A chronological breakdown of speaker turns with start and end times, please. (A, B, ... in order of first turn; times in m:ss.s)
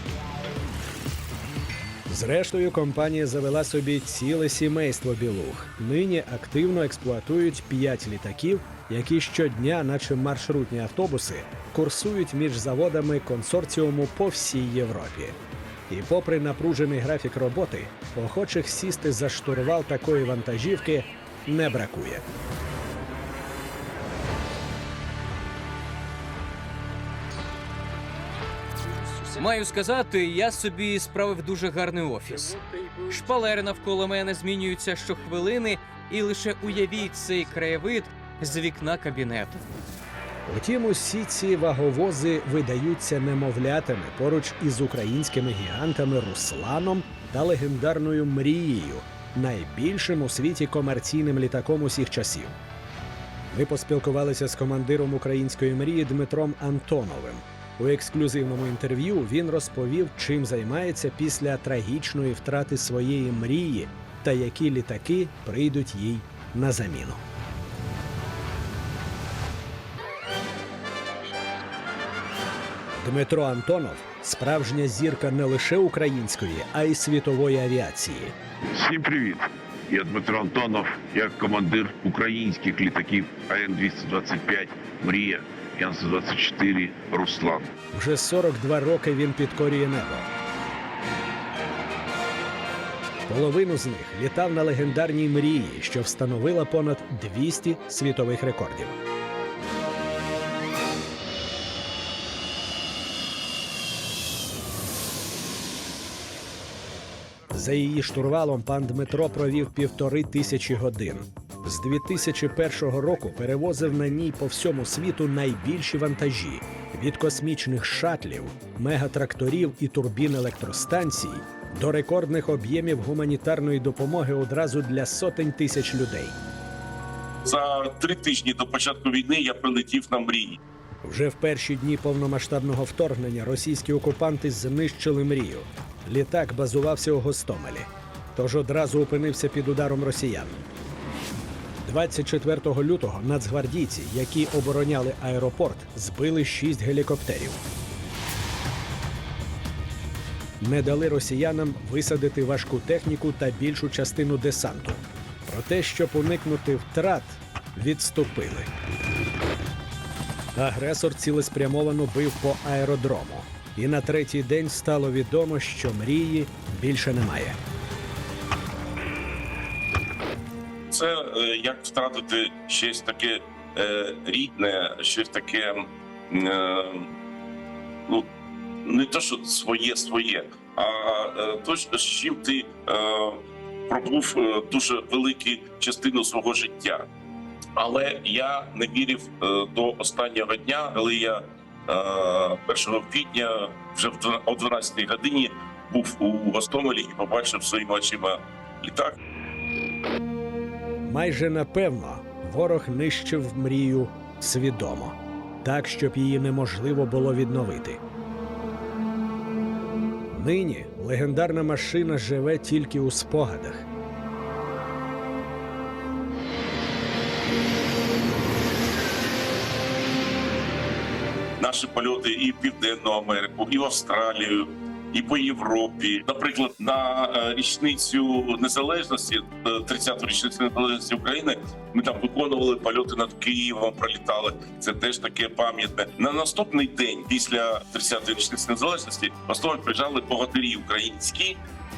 0:02.1-0:15.4 A
0:15.9-0:22.2 A
0:29.2-0:39.6 B
0:40.5-0:52.6 A
0:53.5-1:07.2 A
1:13.0-1:18.4 A
1:18.8-1:27.7 C
1:27.9-1:30.3 A
1:33.3-1:39.0 A
1:47.5-2:06.4 A
2:07.4-2:10.6 D
2:11.0-2:20.6 A
2:21.8-2:27.6 A
2:30.6-2:38.7 A
2:40.6-2:47.6 A
2:50.9-2:57.1 D
2:58.8-3:07.1 D
3:07.8-3:19.2 D
3:21.0-3:28.0 A
3:30.3-3:33.9 A
3:41.6-4:01.6 D